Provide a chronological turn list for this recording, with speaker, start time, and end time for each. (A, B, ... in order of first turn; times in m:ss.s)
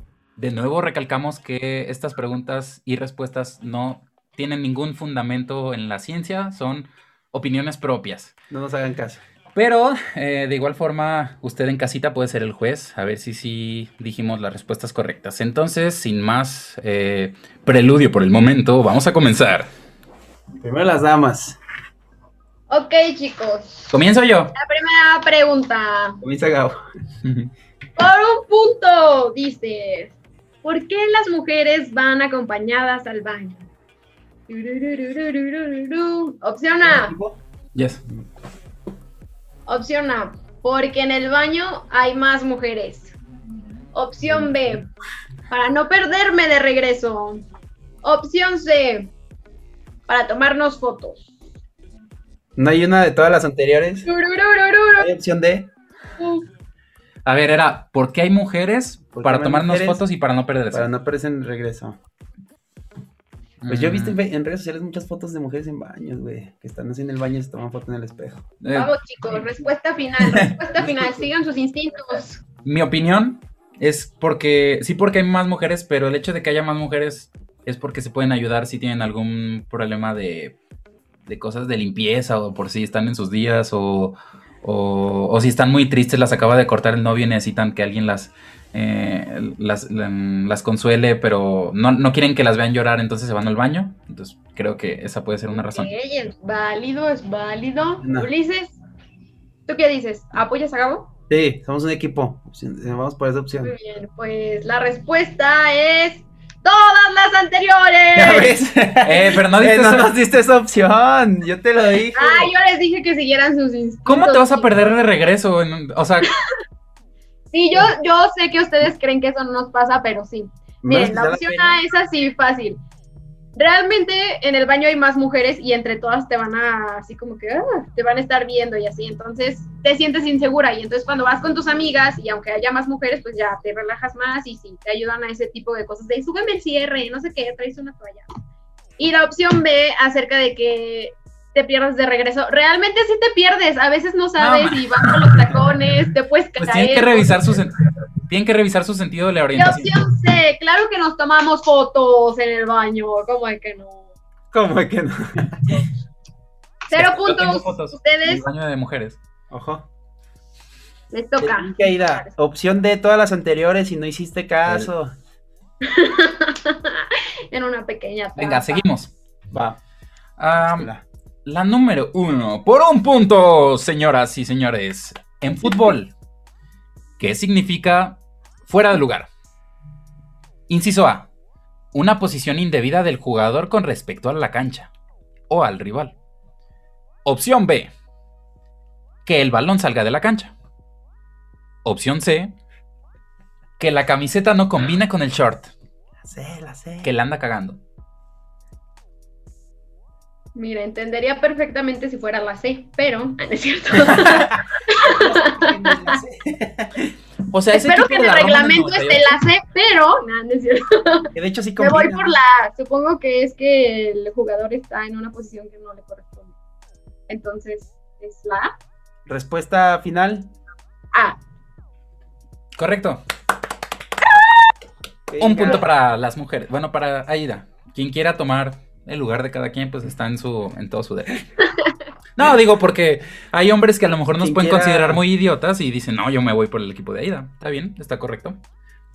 0:00.4-0:08.3 A
0:08.5-0:09.2 B
0:09.6-0:19.7 A
0:20.6-0:21.6 B
0:22.7-0:23.9 C
0:23.9-0:24.5 A
0:24.5-0:26.2 C
0:26.2-0:26.8 B
0:27.2-0:27.5 A
0:28.0-0:33.6 C
0:34.5-0:37.2 C
0:36.8-0:37.4 B
0:37.8-0:38.0 A
0:39.7-0:43.1 C
0:43.9-0:44.9 C
0:45.5-0:47.4 C
0:48.0-0:49.1 C
0:50.1-0:51.2 C
0:52.6-0:54.1 B
0:54.1-0:55.1 C
0:55.0-0:55.7 B
0:56.2-0:56.5 C
0:57.3-1:00.9 A
0:59.2-1:00.0 B
1:00.7-1:02.0 B
1:03.6-1:04.2 A
1:03.7-1:08.4 B
1:08.6-1:08.9 A
1:08.8-1:12.4 C
1:10.2-1:10.5 A
1:10.8-1:11.3 B
1:12.6-1:20.6 A
1:21.3-1:35.9 A
1:35.5-1:38.8 C
1:38.0-1:38.3 B
1:39.7-1:41.1 C
1:41.3-1:43.7 B
1:43.6-1:48.6 C
1:48.2-1:52.5 B
1:49.0-1:50.1 A
1:52.2-1:54.7 C
1:54.1-1:56.3 A
1:57.5-2:02.8 C
2:00.8-2:01.8 B
2:03.6-2:18.3 C
2:19.0-2:27.5 C
2:24.4-2:25.2 A
2:26.6-2:27.8 A
2:28.3-2:30.0 A
2:29.6-2:34.1 C
2:34.5-2:35.9 B
2:36.9-2:38.4 C
2:36.9-2:39.2 A
2:39.5-2:39.9 B
2:41.1-2:42.3 C
2:41.4-2:45.1 B
2:45.8-2:48.8 C
2:48.4-2:49.1 A
2:49.5-2:49.8 B
2:50.4-2:50.9 A
2:50.6-2:51.0 B
2:51.4-2:56.1 A
2:57.2-2:59.3 A
3:00.7-3:01.3 A
3:01.9-3:04.9 A
3:05.5-3:06.2 A
3:07.2-3:07.9 A
3:09.2-3:10.5 A
3:11.8-3:12.5 A
3:13.8-3:15.7 A
3:16.2-3:17.1 B
3:17.0-3:17.8 A
3:20.6-3:26.2 C
3:24.0-3:27.1 B
3:27.5-3:29.4 A
3:27.7-3:36.5 C
3:31.4-3:32.4 B
3:37.3-3:38.7 C
3:39.3-3:40.5 B
3:42.8-3:43.2 A
3:45.3-3:45.9 B
3:45.4-3:51.4 A
3:52.4-3:58.6 A
3:54.4-3:55.2 B